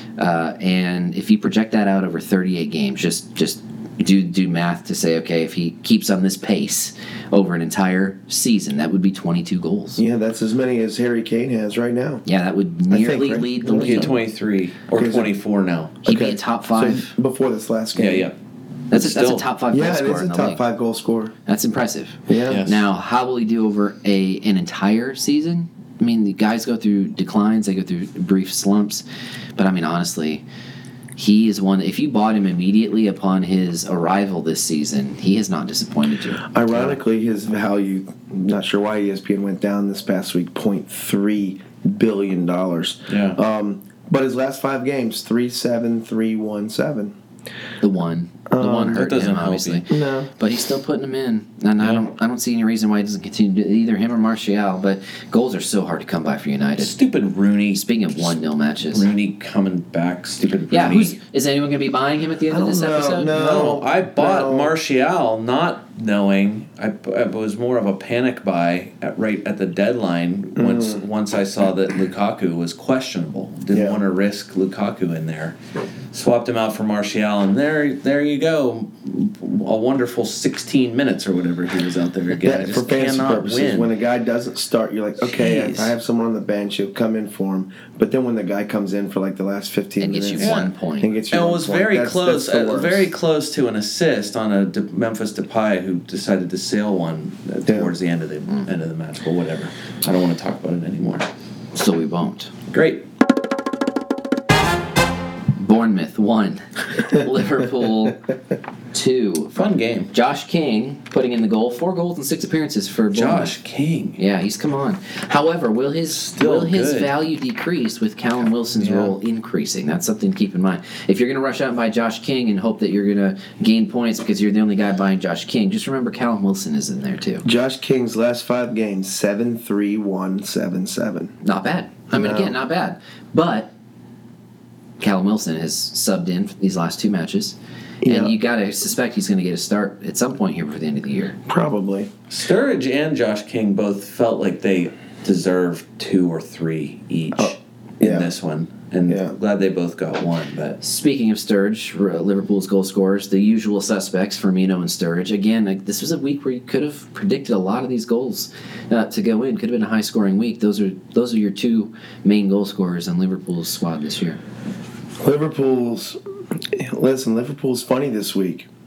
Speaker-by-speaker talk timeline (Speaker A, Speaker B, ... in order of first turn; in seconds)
Speaker A: 0.2-10.0, 12.2-14.1, 16.0-17.1, 18.9-20.6, 21.5-29.0, 29.6-30.4, 31.1-37.0, 47.8-56.9, 57.7-59.1, 60.7-63.3, 90.0-91.1, 101.7-102.5, 105.5-108.2, 108.9-113.5, 114.2-127.5, 131.4-133.7, 135.0-141.3, 150.8-164.4
Speaker B: 10.0-12.2, 12.9-14.2, 14.9-15.3, 16.0-18.3, 19.7-21.3, 22.3-22.6, 36.5-47.1, 48.5-49.0, 49.9-50.3, 62.5-64.7, 70.5-71.0, 73.7-74.0, 82.4-93.1, 97.7-97.9, 127.4-131.3, 132.1-132.6, 138.0-138.3, 141.5-142.1, 147.3-148.3, 149.1-149.3, 165.2-166.2, 166.7-168.7
Speaker C: 13.7-16.0, 17.9-18.4, 18.9-19.4, 22.5-22.9, 43.1-43.4, 48.9-49.8, 51.8-52.0, 56.8-61.2, 63.3-75.6, 76.1-83.9, 85.2-85.9, 90.4-90.7, 91.3-101.3, 102.7-103.0, 109.5-110.1, 113.1-114.2, 116.1-117.1, 118.8-119.1, 142.3-150.8